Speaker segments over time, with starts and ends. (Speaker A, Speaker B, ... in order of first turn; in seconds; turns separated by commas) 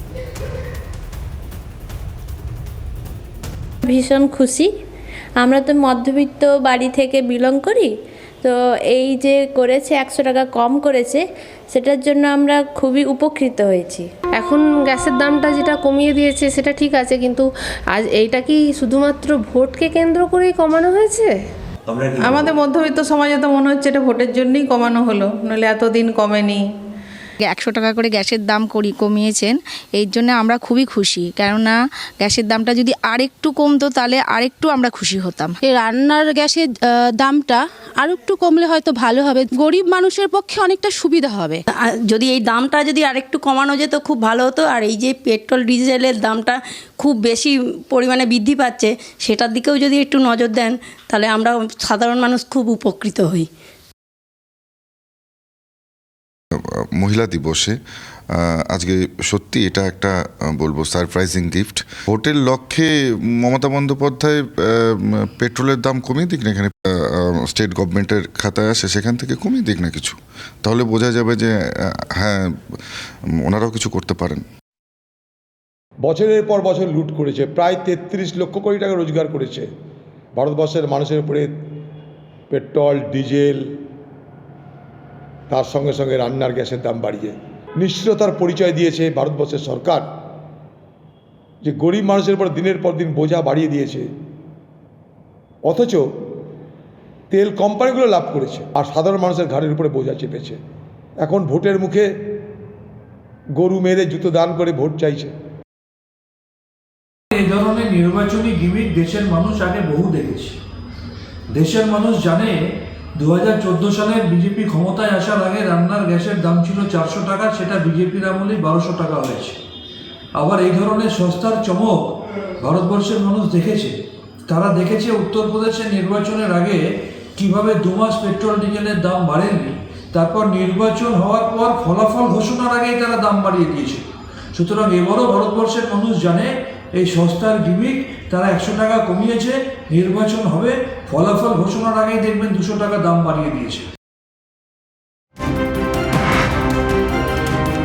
Speaker A: 3.8-4.7, Speaker A: 5.4-7.9, Speaker A: 8.4-14.1, Speaker B: 14.4-21.3, Speaker C: 22.2-26.6, Speaker D: 27.4-35.5, Speaker E: 35.6-41.6, Speaker F: 42.1-53.5, Speaker G: 56.6-57.8, Speaker G: 58.3-74.4, Speaker H: 76.0-79.7, Speaker H: 80.3-81.5, Speaker H: 82.5-83.6, Speaker H: 85.5-90.1, Speaker H: 91.6-94.1, Speaker H: 95.6-96.1, Speaker H: 97.3-100.6, Speaker H: 101.2-102.1, Speaker H: 103.5-105.3, Speaker I: 107.3-110.6, Speaker I: 111.5-112.6, Speaker I: 113.2-119.6, Speaker I: 120.3-122.0, Speaker I: 122.6-124.0, Speaker I: 124.5-126.8, Speaker I: 127.4-143.9